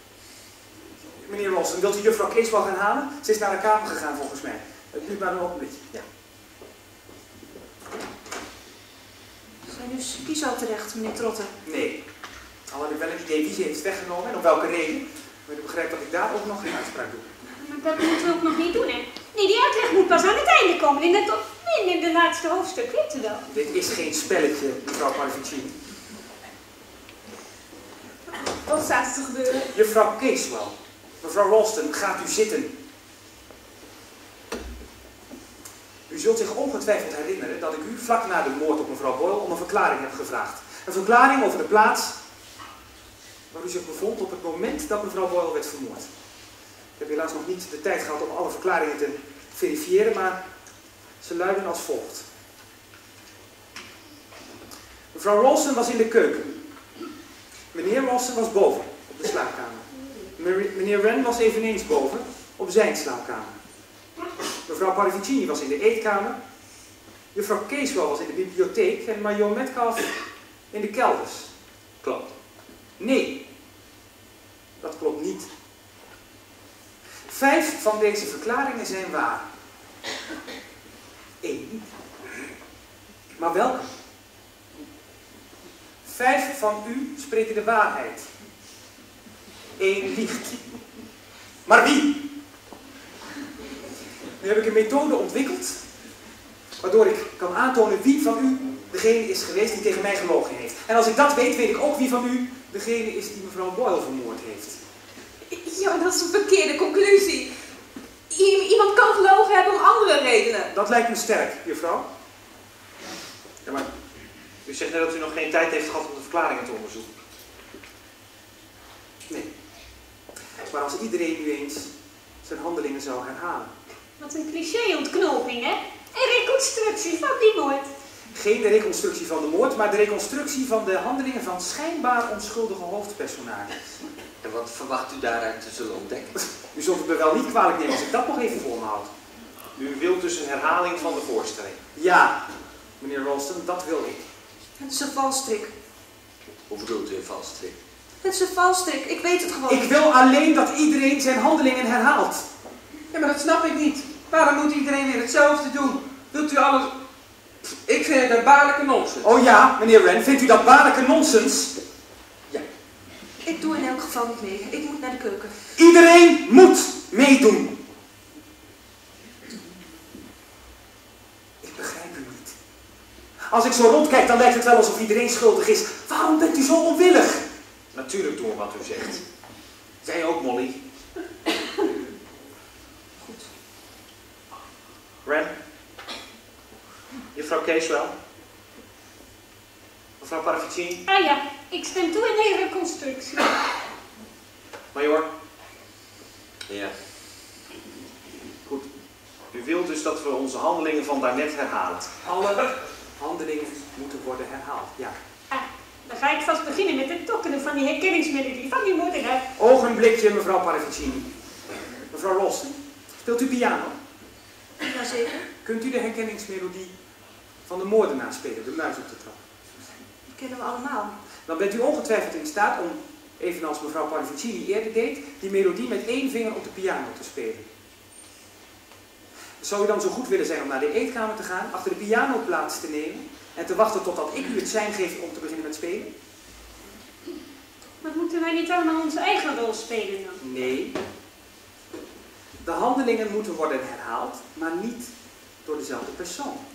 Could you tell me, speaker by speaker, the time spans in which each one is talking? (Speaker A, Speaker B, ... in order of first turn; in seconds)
Speaker A: 1.0-5.9, 11.6-12.0, 12.7-17.3, 23.4-25.8, 29.7-32.7, 36.1-42.1, 43.5-46.1, 47.0-50.4, 51.2-52.3, 55.1-56.6, 57.7-63.5, 64.6-66.4, 67.3-70.2, 70.7-71.5, 73.0-73.4, 74.8-75.5, 77.2-79.5, 81.4-81.9, 83.3-83.9, 86.0-88.3, 89.8-90.7, 91.7-92.2, 94.4-95.8, 96.8-104.8, 110.7-112.0, 120.5-121.9, 122.4-123.7, 128.3-133.8, 136.6-139.1, 141.9-142.4, 143.0-144.2, 149.7-152.5, 159.2-161.8, 165.8-167.8, 171.6-172.6, 173.4-177.5, 202.2-205.2, 209.6-211.3, 212.1-213.9, 215.6-216.9, 217.7-219.4, 221.4-227.7, 229.6-236.1, 240.4-240.9, 242.6-245.1, 245.6-246.6
Speaker B: 9.7-11.5, 144.8-145.7, 148.2-149.9, 163.4-165.6, 214.8-215.4, 220.3-221.1
Speaker C: 17.6-23.4, 124.2-127.9, 191.1-193.5, 205.5-209.4, 238.0-240.4
Speaker D: 28.3-29.7, 105.5-107.5, 108.3-110.7
Speaker E: 113.6-113.9, 114.6-117.1, 139.8-141.8, 177.9-179.2, 180.0-180.8, 185.2-185.5, 187.3-188.1, 190.2-191.0, 194.9-195.3, 199.5-202.1
Speaker F: 134.4-136.4, 146.7-147.8, 196.7-196.9
Speaker G: 153.1-156.9, 157.8-159.3